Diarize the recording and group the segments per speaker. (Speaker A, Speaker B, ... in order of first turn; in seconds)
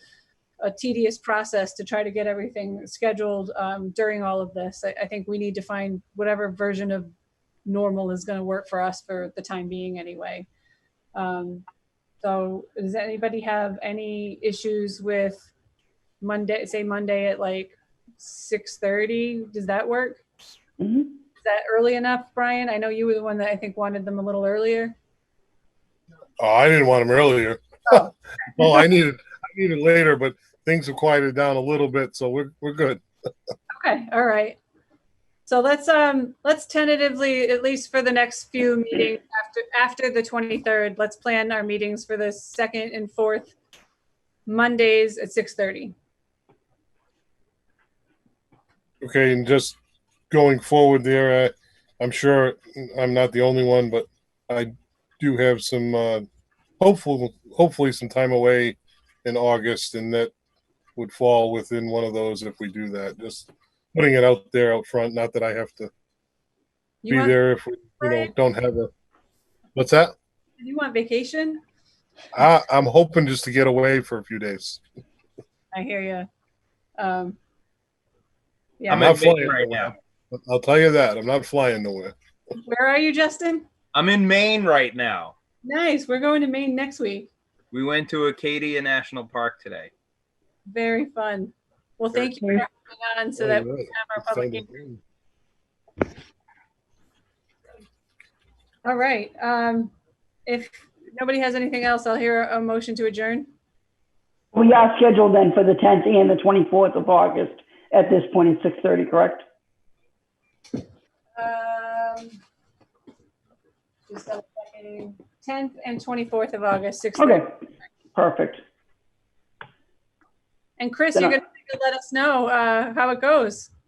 Speaker A: 0.6-7.1, 7.7-10.5, 11.1-11.6, 12.2-15.5, 16.2-20.2, 21.4-24.9, 33.7-34.6, 35.5-43.5, 44.5-45.9, 67.0-67.3, 68.0-68.3, 70.6-71.6, 75.7-76.3, 77.0-77.4, 78.8-79.1, 82.5-83.7, 85.6-87.3, 90.7-94.7, 98.8-99.9, 100.5-103.5, 111.3-112.4, 114.1-117.4, 120.8-123.7
Speaker B: 20.8-21.1, 104.5-109.4, 117.2-117.5, 118.1-118.6
Speaker C: 26.4-33.0, 49.0-49.8, 50.3-56.2, 56.8-60.3, 61.0-65.9, 67.1-68.9, 69.7-70.1, 72.3-74.8, 78.9-82.1, 93.4-95.0
Speaker D: 78.9-79.9, 83.9-85.3, 87.7-89.9